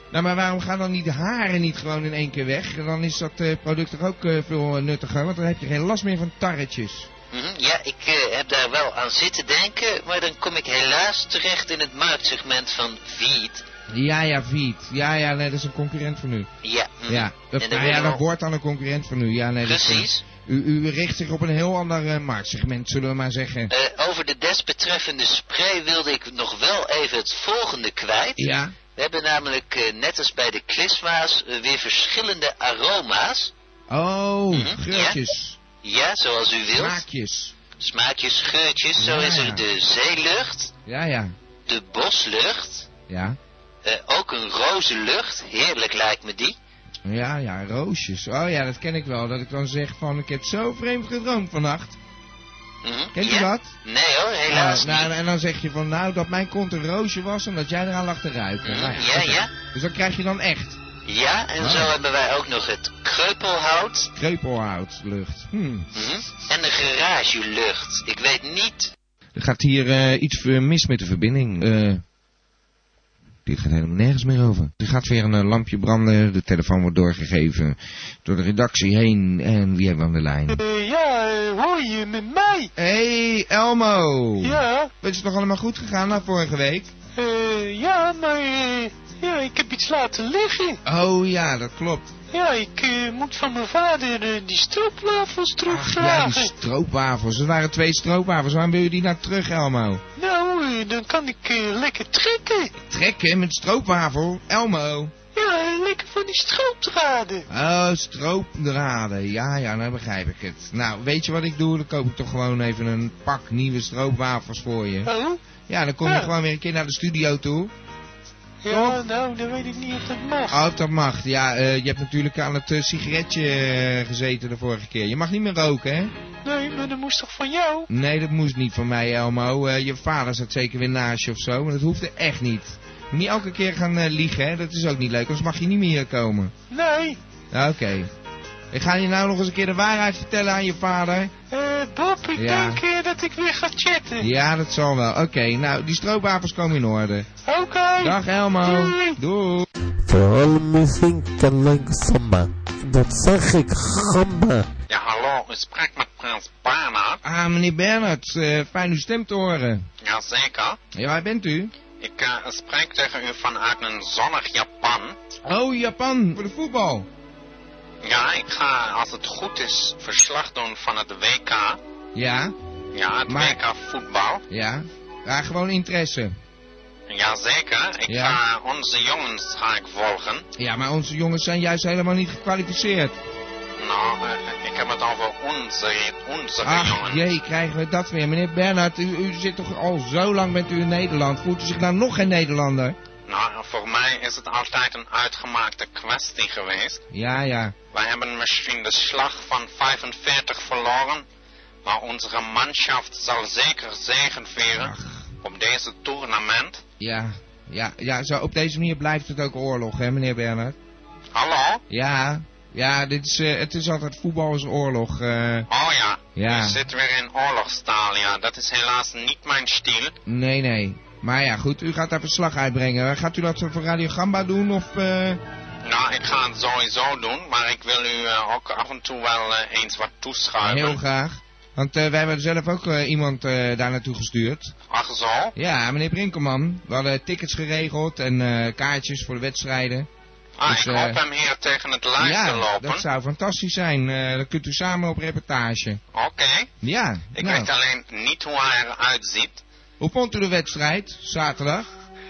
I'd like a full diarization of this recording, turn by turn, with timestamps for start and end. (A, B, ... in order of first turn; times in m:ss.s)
0:00.1-0:07.1 A
0:07.3-0:13.6 B
0:13.9-0:16.5 A
0:16.6-0:18.2 B
0:17.1-0:23.7 A
0:19.6-0:20.2 B
0:23.7-0:33.5 B
0:28.4-0:28.7 A
0:33.9-0:35.6 A
0:34.5-0:35.2 B
0:35.8-0:37.0 B
0:36.7-0:37.5 A
0:37.8-0:40.7 B
0:39.0-0:39.6 A
0:40.8-0:41.3 A
0:41.7-0:42.9 B
0:43.1-0:43.4 A
0:43.8-0:46.6 B
0:47.0-0:52.0 A
0:52.8-0:55.1 B
0:53.1-0:53.7 A
0:54.5-1:00.8 A
0:58.6-0:59.5 B
1:01.0-1:04.1 B
1:01.6-1:01.9 A
1:04.1-1:05.9 A
1:05.9-1:08.9 B
1:09.4-1:12.0 A
1:13.4-1:20.6 A
1:20.5-1:22.7 C
1:22.8-1:26.9 A
1:24.4-1:24.9 C
1:27.2-1:30.8 C
1:30.8-1:32.1 A
1:32.3-1:36.5 C
1:35.6-1:40.0 A
1:40.2-1:42.7 C
1:42.8-1:45.1 A
1:45.3-1:47.4 C
1:47.5-1:55.1 A
1:55.0-1:55.4 C
1:55.7-1:57.7 A
1:56.0-1:56.3 C
1:58.6-2:00.6 C
1:58.7-1:59.0 A
2:00.5-2:06.1 A
2:06.4-2:07.9 C
2:07.9-2:16.5 A
2:16.7-2:17.2 C
2:17.5-2:18.1 A
2:18.7-2:21.3 A
2:21.5-2:24.2 C
2:22.3-2:22.8 A
2:24.2-2:27.3 A
2:27.4-2:29.2 C
2:28.0-2:29.7 A
2:30.1-2:34.6 D
2:34.9-2:37.2 E
2:37.2-2:39.8 A
2:40.0-2:40.8 E
2:40.9-2:41.7 A
2:42.0-2:45.2 E
2:45.4-2:47.1 A
2:48.0-2:51.8 E
2:52.1-2:52.5 A
2:52.9-2:54.4 E
2:53.3-2:53.6 A
2:54.5-2:56.3 A
2:57.1-3:00.4 E
2:58.1-2:58.4 A
3:00.6-3:03.2 A
3:03.8-3:07.2 E
3:06.6-3:13.0 A
3:13.3-3:17.0 E
3:17.1-3:17.7 A
3:17.9-3:21.2 E
3:21.8-3:26.8 E
3:24.7-3:25.2 A
3:27.0-3:30.8 A
3:31.3-3:31.8 E
3:31.9-3:35.7 A
3:35.7-3:40.1 E
3:36.4-3:36.8 A
3:40.2-3:45.4 A
3:45.8-3:51.0 E
3:50.6-3:54.7 A
3:54.9-3:55.5 E
3:55.6-4:00.1 A
4:00.6-4:03.0 E
4:00.6-4:01.2 A
4:02.2-4:06.0 A
4:06.1-4:06.7 E
4:06.8-4:07.7 A
4:07.4-4:09.6 E
4:10.0-4:11.8 A